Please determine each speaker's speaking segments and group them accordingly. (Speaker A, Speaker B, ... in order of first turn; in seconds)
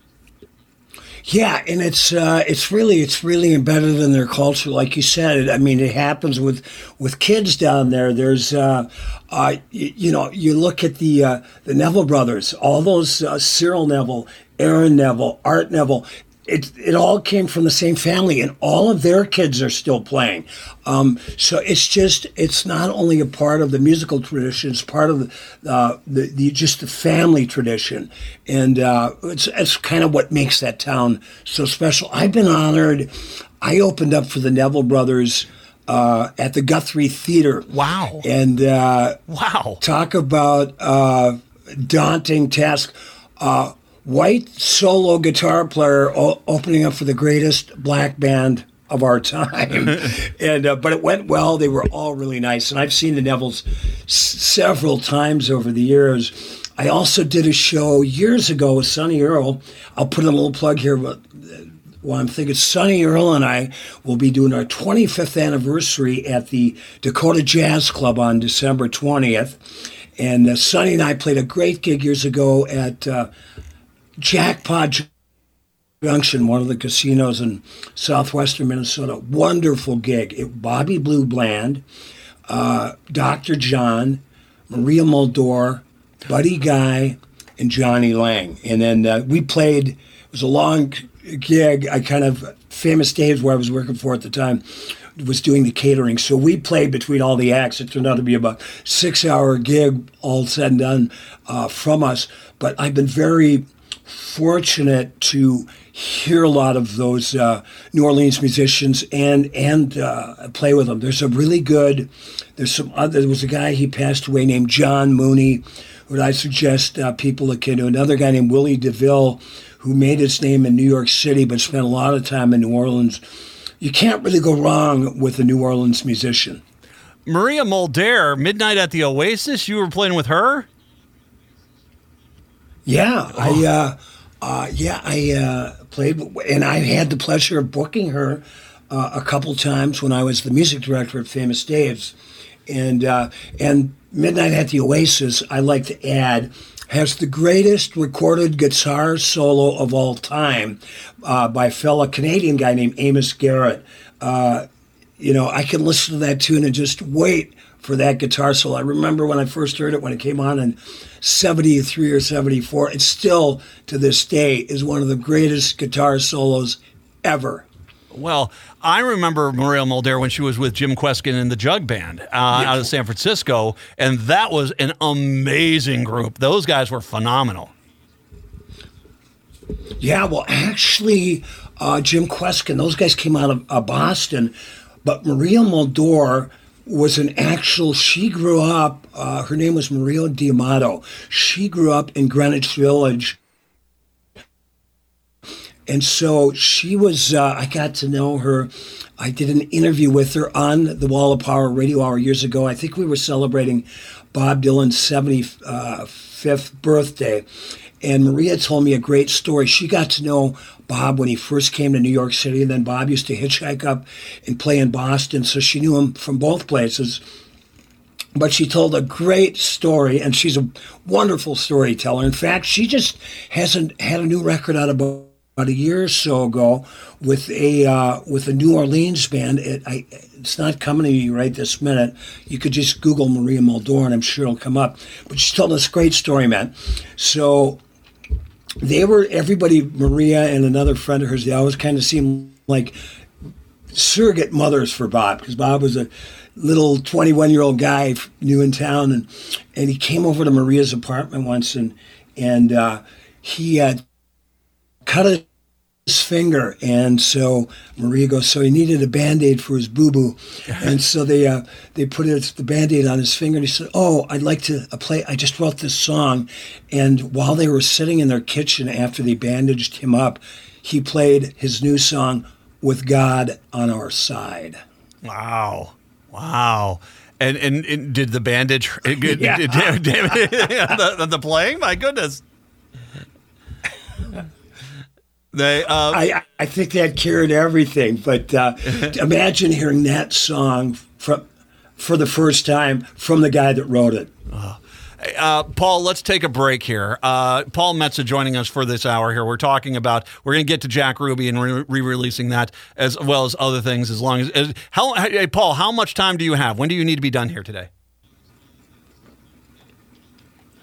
Speaker A: 1.2-39.2, 39.8-73.3, 74.2-75.1, 76.0-81.8, 82.5-123.2, 123.8-126.6, 132.8-154.7, 155.2-167.7, 172.5-172.9, 180.0-193.4, 195.9-207.4, 208.0-217.2, 218.3-237.8, 238.8-243.0, 243.9-254.0, 255.0-255.5, 256.1-274.8, 279.2-280.7, 286.1-291.4, 292.0-294.3
Speaker B: 37.7-38.2, 39.3-39.8, 127.2-130.7, 168.1-177.7, 275.2-282.4, 285.5-286.2, 294.5-307.9